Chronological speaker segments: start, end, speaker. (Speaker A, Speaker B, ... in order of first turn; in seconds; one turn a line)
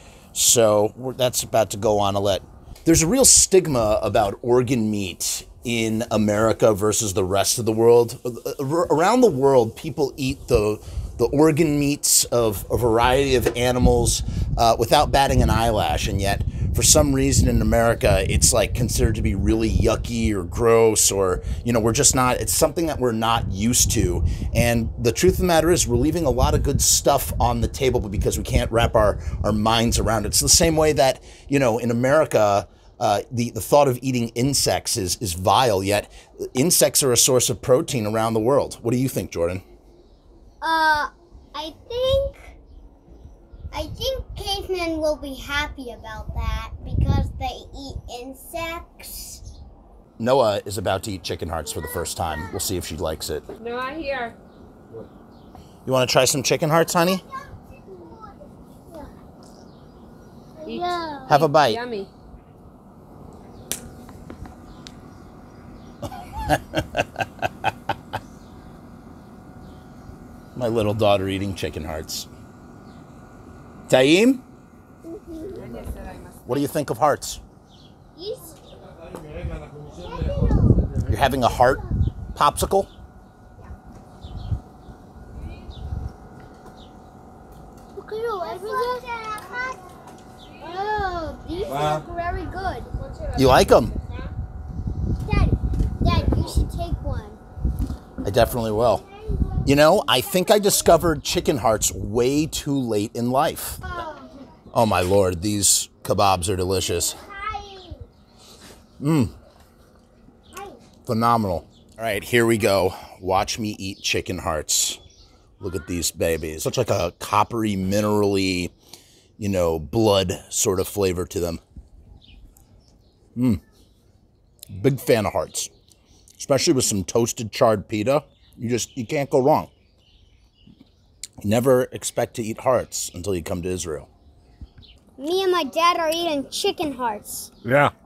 Speaker A: 0.3-39.6
Speaker B: 40.6-42.5
Speaker B: 43.7-49.4
Speaker A: 50.2-53.5
Speaker C: 53.6-54.4
Speaker A: 55.9-57.2
Speaker B: 58.0-58.3
Speaker B: 60.6-61.3
Speaker C: 60.6-62.1
Speaker A: 61.3-61.8
Speaker A: 66.4-67.2
Speaker A: 70.5-72.3
Speaker A: 73.9-74.4
Speaker C: 75.5-76.7
Speaker A: 76.5-77.4
Speaker B: 78.2-78.6
Speaker B: 79.9-81.0
Speaker A: 81.0-81.8
Speaker A: 82.3-82.9
Speaker B: 88.0-89.8
Speaker C: 88.6-88.9
Speaker B: 90.6-92.9
Speaker C: 92.9-94.3
Speaker A: 93.3-93.9
Speaker B: 95.2-97.4
Speaker A: 98.2-99.0
Speaker A: 99.7-103.8
Speaker B: 103.9-104.3
Speaker A: 104.7-107.2
Speaker B: 107.0-108.1
Speaker A: 109.0-109.3
Speaker A: 111.1-115.0
Speaker A: 115.6-118.7
Speaker A: 119.4-121.6
Speaker A: 123.4-123.6
Speaker A: 124.7-125.7
Speaker A: 126.4-129.7
Speaker A: 131.4-134.1
Speaker B: 135.2-137.5
Speaker A: 137.6-137.9